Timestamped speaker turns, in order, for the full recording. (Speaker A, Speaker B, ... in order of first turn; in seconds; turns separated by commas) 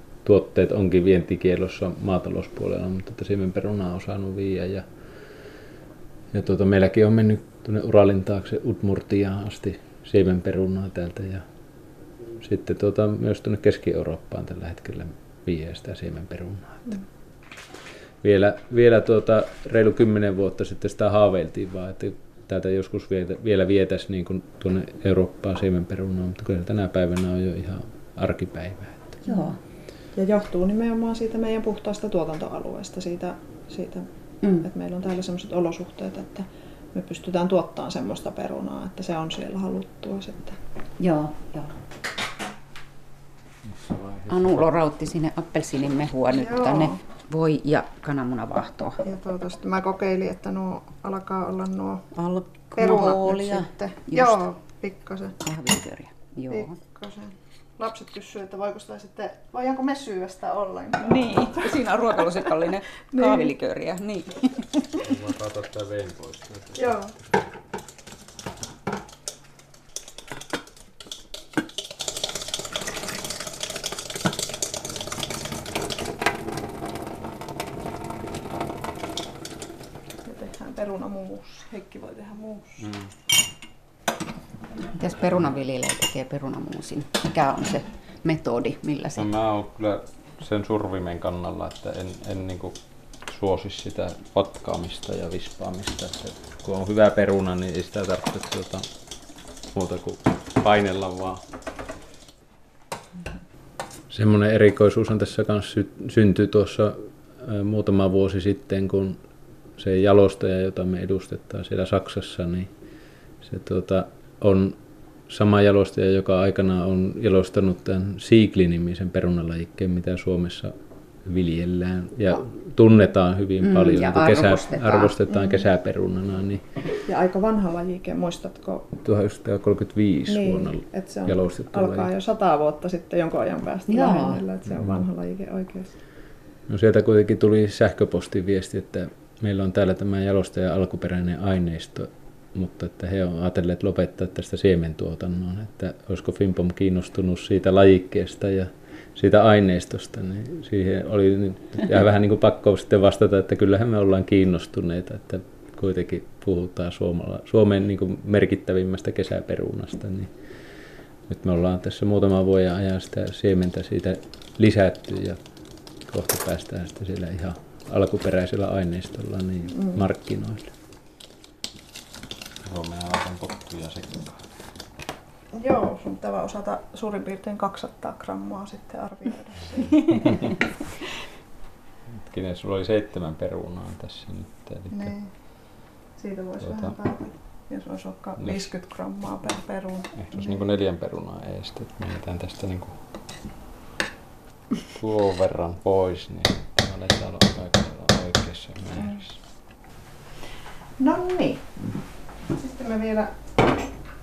Speaker A: 0.2-4.9, Speaker A: 6.3-11.4, Speaker A: 12.4-17.0, Speaker A: 18.2-29.2, Speaker B: 29.2-29.6, Speaker C: 30.1-40.6, Speaker B: 41.0-41.8, Speaker A: 43.6-44.6, Speaker B: 44.3-49.0, Speaker C: 46.3-47.0, Speaker C: 49.0-52.1, Speaker B: 52.1-54.4, Speaker C: 52.8-55.4, Speaker B: 55.4-56.8, Speaker C: 56.5-61.8, Speaker B: 61.0-65.0, Speaker C: 63.1-63.5, Speaker A: 65.0-67.0, Speaker C: 66.8-67.1, Speaker C: 80.2-82.8, Speaker A: 82.8-83.1, Speaker B: 85.0-89.3, Speaker A: 89.2-92.8, Speaker A: 93.3-98.9, Speaker A: 99.7-101.4, Speaker A: 104.1-109.2, Speaker A: 109.8-112.7, Speaker A: 113.4-126.6, Speaker B: 123.6-125.1, Speaker C: 125.3-125.6, Speaker C: 127.0-128.9, Speaker A: 129.0-132.1, Speaker C: 130.3-135.9, Speaker B: 133.9-134.4, Speaker A: 134.7-135.0, Speaker A: 136.7-160.5, Speaker A: 161.3-165.4, Speaker A: 166.0-170.7, Speaker C: 169.7-170.0, Speaker A: 172.6-174.4, Speaker C: 175.6-180.3, Speaker A: 182.2-185.1, Speaker C: 184.9-185.3, Speaker C: 186.1-190.6, Speaker A: 186.6-186.9, Speaker A: 188.4-188.7, Speaker A: 190.2-193.0, Speaker A: 194.9-199.4, Speaker C: 201.0-201.7, Speaker C: 202.5-203.6